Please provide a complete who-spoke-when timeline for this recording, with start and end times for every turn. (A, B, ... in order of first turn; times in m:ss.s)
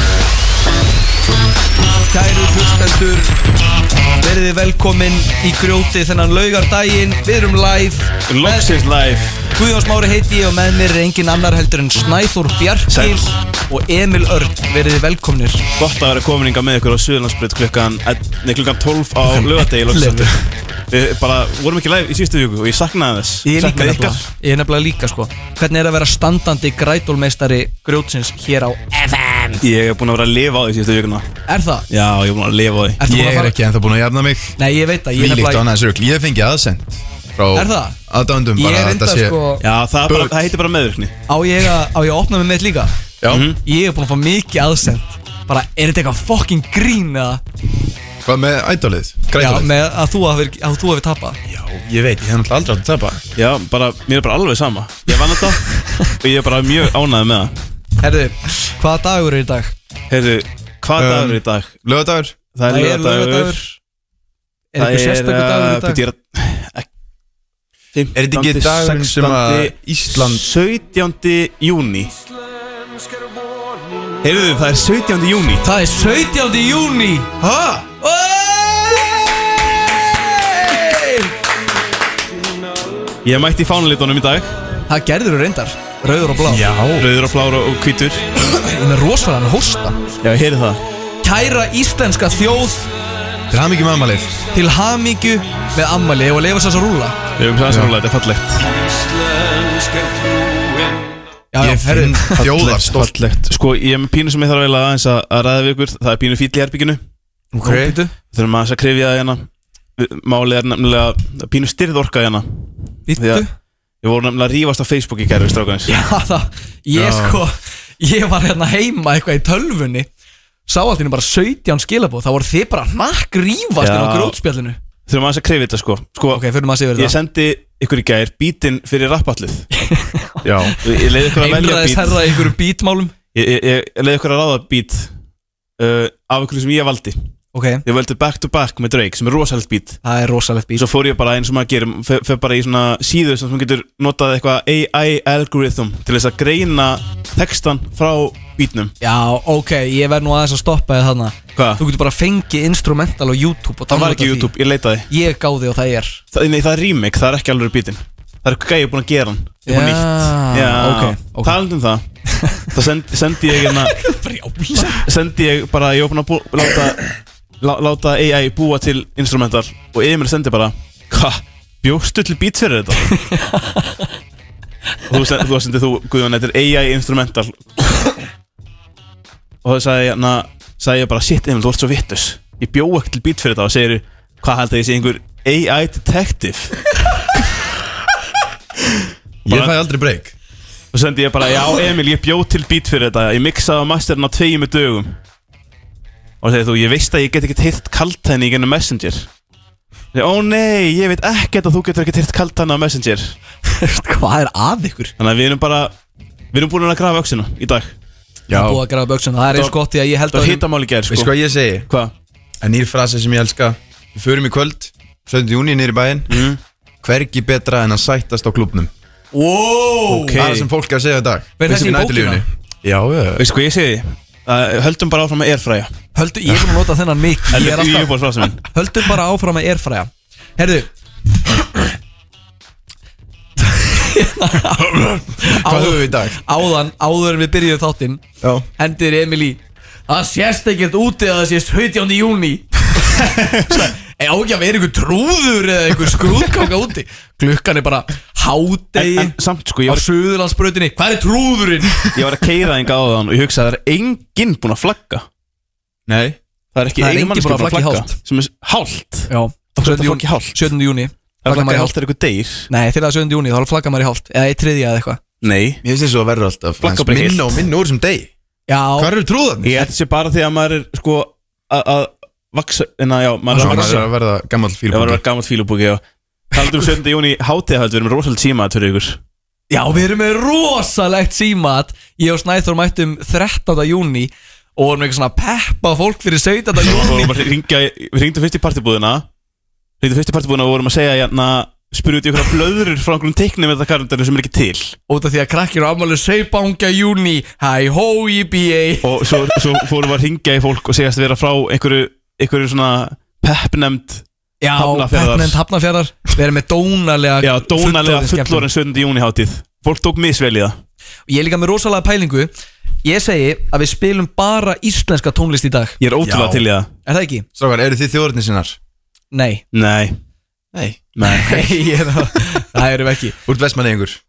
0:02.1-0:03.3 A
0:04.1-0:08.7 A
0:08.3-0:09.5 B
0:09.5-0:15.6 A
0:12.9-0:13.3 B
0:15.8-0:24.3 B
0:19.4-0:20.3 A
0:23.4-0:29.5 A
0:29.6-0:31.3 B
0:31.5-0:31.8 A
0:31.9-0:33.0 B
0:33.0-0:33.6 A
0:33.0-0:34.5 C
0:34.6-0:35.6 A
0:35.1-0:39.4 C
0:37.5-0:38.0 A
0:38.6-0:39.6 A
0:39.6-0:41.1 B
0:40.1-0:40.3 C
0:41.3-0:42.9 A
0:43.2-0:43.5 C
0:43.3-0:43.6 B
0:43.6-0:47.4 A
0:48.2-0:49.7 C
0:49.3-0:51.4 A
0:51.5-0:53.2 C
0:53.3-0:55.7 B
0:55.8-0:56.1 A
0:56.2-0:57.5 B
0:58.0-0:59.7 A
1:00.1-1:01.7 B
1:01.0-1:02.4 C
1:02.5-1:03.6 B
1:02.7-1:03.6 A
1:04.7-1:06.0 A
1:04.8-1:06.9 B
1:07.9-1:12.1 B
1:08.1-1:10.4 C
1:14.2-1:15.6 B
1:15.6-1:17.3 A
1:17.4-1:17.9 C
1:18.0-1:19.2 A
1:20.6-1:21.2 A
1:23.2-1:24.5 B
1:24.9-1:26.6 A
1:26.5-1:27.1 C
1:27.0-1:28.2 B
1:28.6-1:30.0 A
1:30.2-1:30.8 B
1:31.2-1:32.9 A
1:33.5-1:34.4 C
1:34.5-1:37.2 A
1:37.4-1:38.6 B
1:41.5-1:42.5 A
1:41.6-1:43.2 C
1:42.4-1:47.0 B
1:47.5-1:48.0 C
1:47.6-1:48.1 A
1:48.3-1:49.5 B
1:50.0-1:53.4 B
1:53.1-1:53.5 A
1:54.0-1:55.9 B
1:55.9-2:00.1 A
1:56.9-1:57.4 C
2:00.7-2:04.8 A
2:03.8-2:04.4 B
2:05.1-2:06.4 B
2:06.3-2:07.2 A
2:06.9-2:09.6 B
2:09.7-2:10.8 A
2:10.4-2:10.8 C
2:10.8-2:12.4 B
2:11.3-2:13.2 A
2:13.3-2:15.1 B
2:15.8-2:17.2 B
2:17.5-2:17.8 A
2:17.8-2:20.0 B
2:20.0-2:20.8 A
2:20.7-2:28.9 B
2:29.0-2:34.5 A
2:31.6-2:31.8 B
2:33.9-2:35.1 B
2:35.1-2:36.2 A
2:36.3-2:42.0 B
2:39.6-2:41.6 A
2:42.3-2:42.6 A
2:42.7-2:44.0 B
2:43.8-2:45.0 A
2:44.7-2:47.0 B
2:47.6-2:53.1 B
2:53.1-2:54.0 A
2:55.1-2:57.8 B
2:59.6-3:06.8 B
3:09.4-3:09.7 B
3:09.4-3:10.3 C
3:10.9-3:15.1 B
3:16.4-3:19.3 B
3:20.1-3:23.4 B
3:23.6-3:25.1 A
3:25.2-3:25.9 B
3:26.5-3:27.9 B
3:28.5-3:28.8 C
3:28.5-3:30.6 A
3:29.5-3:29.8 B
3:30.3-3:31.3 B
3:31.1-3:31.9 C
3:32.6-3:36.4 C
3:36.3-3:36.6 B
3:37.0-3:38.9 C
3:39.3-3:40.4 A
3:40.1-3:40.7 B
3:40.4-3:43.4 C
3:41.6-3:42.4 A
3:43.4-3:45.9 B
3:46.1-3:48.1 A
3:47.5-3:48.6 B
3:48.6-3:50.9 A
3:53.6-3:58.2 A
3:54.9-3:56.4 C
3:58.4-3:58.7 C
3:58.8-4:03.0 A
4:03.2-4:03.9 B
4:04.0-4:09.3 A
4:08.9-4:10.0 B
4:09.9-4:12.1 A
4:12.1-4:15.2 B
4:16.1-4:16.4 C
4:16.7-4:20.7 B
4:17.0-4:18.1 A
4:19.3-4:21.9 A
4:21.4-4:22.7 B
4:22.7-4:25.2 A
4:25.4-4:25.8 B
4:25.8-4:28.3 C
4:26.8-4:27.5 B
4:28.7-4:29.1 A
4:28.9-4:29.9 C
4:29.6-4:34.1 B
4:33.5-4:35.2 C
4:33.5-4:33.9 A
4:34.9-4:36.0 B
4:36.5-4:39.2 B
4:39.7-4:47.3 A
4:46.8-4:49.2 B
4:50.0-4:55.0 B
4:55.1-4:59.1 A
4:59.0-5:05.6 B
5:04.6-5:08.6 A
5:07.4-5:10.8 B
5:11.3-5:12.5 A
5:13.0-5:16.0 A
5:16.0-5:16.9 B
5:16.2-5:16.6 C
5:17.0-5:17.4 A
5:17.6-5:18.8 C
5:19.3-5:19.6 A
5:19.7-5:20.2 B
5:20.7-5:21.1 C
5:21.2-5:21.6 B
5:21.4-5:23.4 A
5:23.4-5:24.2 C